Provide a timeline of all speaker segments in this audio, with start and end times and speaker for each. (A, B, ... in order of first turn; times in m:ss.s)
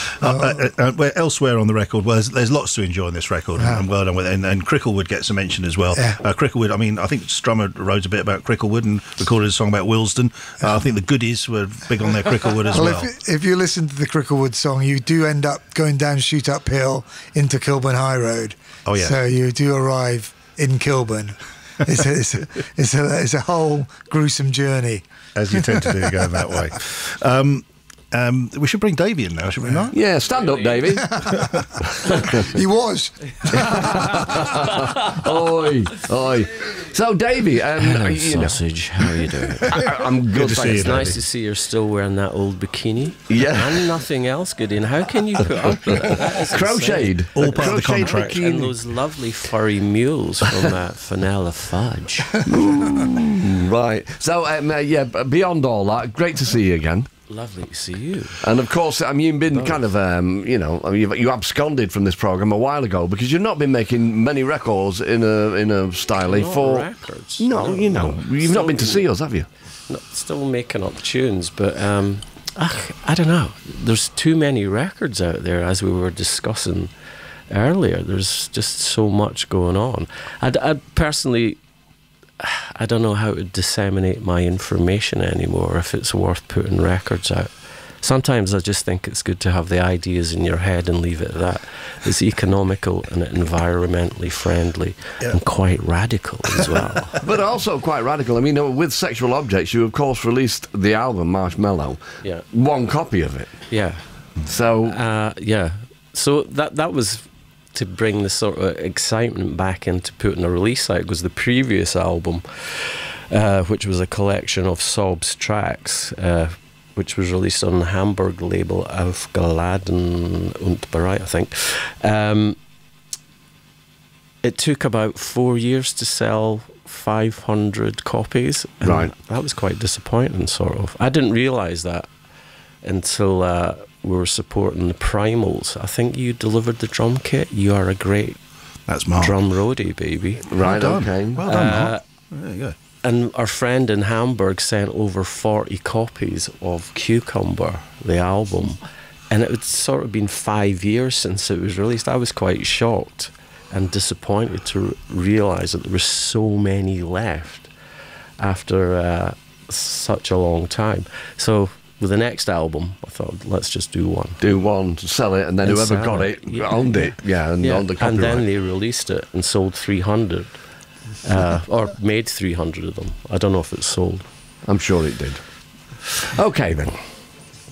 0:00.2-0:13.1 A
0:00.2-0:00.7 B
0:03.6-0:03.8 B
0:05.9-0:06.2 B
0:12.7-0:26.2 B
0:18.9-0:19.2 A
0:25.4-0:30.0 A
0:29.9-0:31.2 C
0:30.4-0:31.0 D
0:31.0-0:31.6 B
0:31.3-0:31.7 A
0:32.5-0:34.2 B
0:33.5-0:41.1 C
0:37.8-0:52.5 D
0:40.3-0:41.2 A
0:43.3-0:43.9 C
0:46.3-0:48.8 C
0:47.3-0:48.4 A
0:52.5-0:57.1 C
0:57.3-0:58.4 D
0:58.4-1:09.5 C
0:59.5-0:59.9 D
1:06.2-1:09.3 D
1:09.9-1:16.9 D
1:17.5-1:21.6 D
1:22.4-1:37.3 D
1:37.2-1:45.0 C
1:42.2-1:42.5 D
1:43.7-2:02.6 D
2:04.4-2:12.1 D
2:08.8-2:09.1 C
2:12.8-2:18.4 D
2:18.9-2:19.4 A
2:19.1-2:20.6 D
2:20.5-2:21.5 C
2:20.6-2:22.8 A
2:21.5-2:22.0 D
2:23.0-2:37.7 D
2:38.4-2:44.4 D
2:44.4-2:48.5 C
2:45.6-2:54.3 D
2:54.7-2:55.6 C
2:56.2-2:57.1 C